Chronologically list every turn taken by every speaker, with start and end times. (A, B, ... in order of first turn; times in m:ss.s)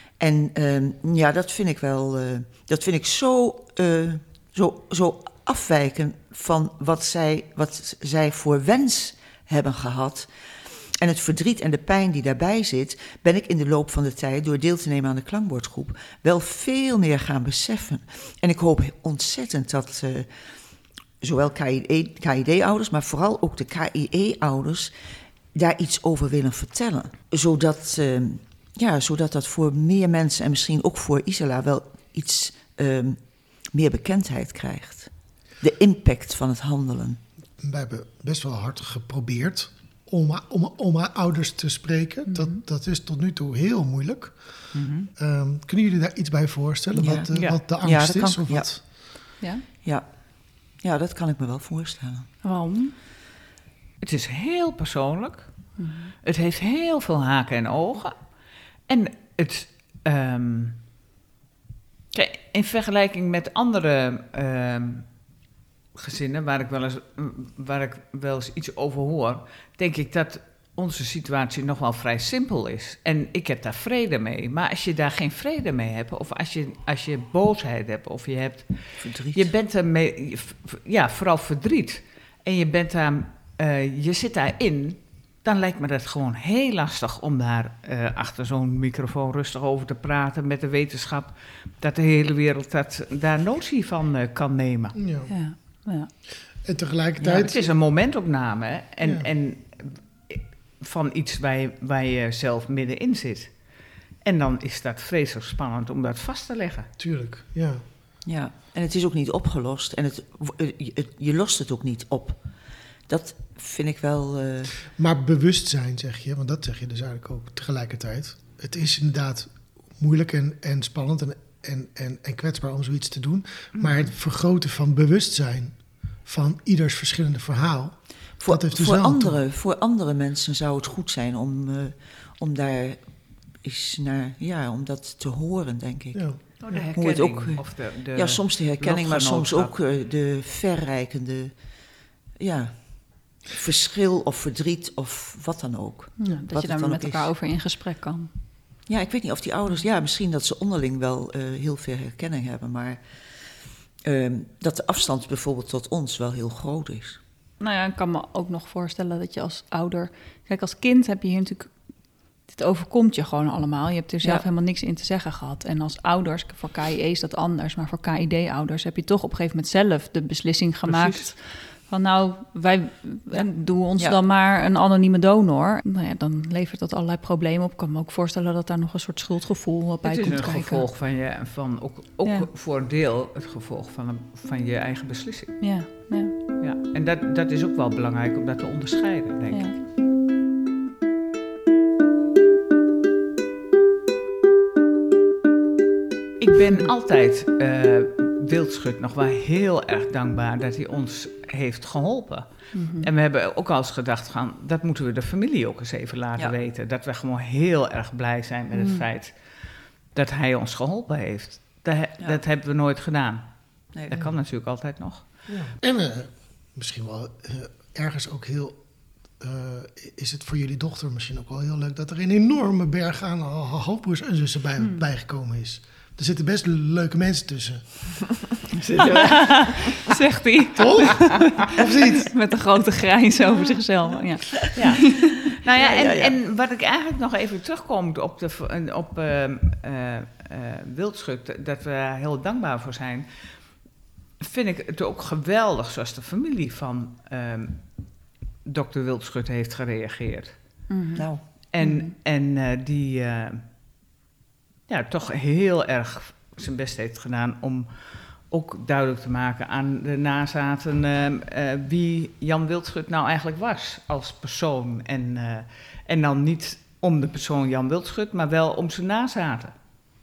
0:00.2-0:10.3 A
0:11.0-0:20.3 A
0:21.2-0:24.9 A
0:25.5-0:37.2 A
0:37.6-0:48.8 B
0:42.2-0:42.6 C
0:44.7-0:45.1 D
0:46.9-0:48.7 A
0:47.3-0:47.6 D
0:49.4-0:49.6 C
0:50.8-0:52.3 A
0:52.4-0:52.9 C
0:54.0-0:55.6 D
0:55.8-0:56.1 C
0:56.2-0:58.2 D
0:58.9-1:00.8 D
1:02.1-1:05.1 D
1:06.0-1:35.0 D
1:19.0-1:19.4 A
1:34.9-1:35.3 B
1:35.3-1:36.1 C
1:36.6-1:37.6 B
1:37.2-1:43.6 D
1:39.0-1:39.3 B
1:44.2-1:46.9 D
1:47.0-1:47.8 B
1:48.2-1:52.4 A
1:53.1-1:54.7 A
1:54.9-2:09.4 B
2:03.8-2:04.1 D
2:08.4-2:13.0 A
2:13.6-2:21.5 A
2:16.6-2:19.7 D
2:22.4-2:27.3 A
2:26.2-2:28.3 C
2:28.9-2:33.0 A
2:34.0-2:37.2 A
2:37.6-2:41.7 C
2:42.5-3:00.8 C
2:50.9-2:51.2 D
3:00.0-3:05.6 D
3:05.6-3:06.4 C
3:06.6-3:09.7 D
3:16.4-3:22.5 D
3:22.7-3:23.1 C
3:23.0-3:29.4 D
3:28.7-3:29.0 C
3:30.1-3:33.4 D
3:33.9-3:34.2 A
3:34.1-3:35.2 D
3:35.5-3:38.8 B
3:39.4-3:48.1 B
3:48.7-3:49.8 D
3:49.1-3:55.5 C
3:50.7-3:52.3 B
3:54.7-4:03.3 D
3:55.7-3:56.3 A
4:04.4-4:07.8 D
4:08.6-4:10.6 D
4:10.9-4:11.3 C
4:11.1-4:11.4 A
4:11.7-4:13.6 D
4:11.8-4:12.1 C
4:14.9-4:29.7 D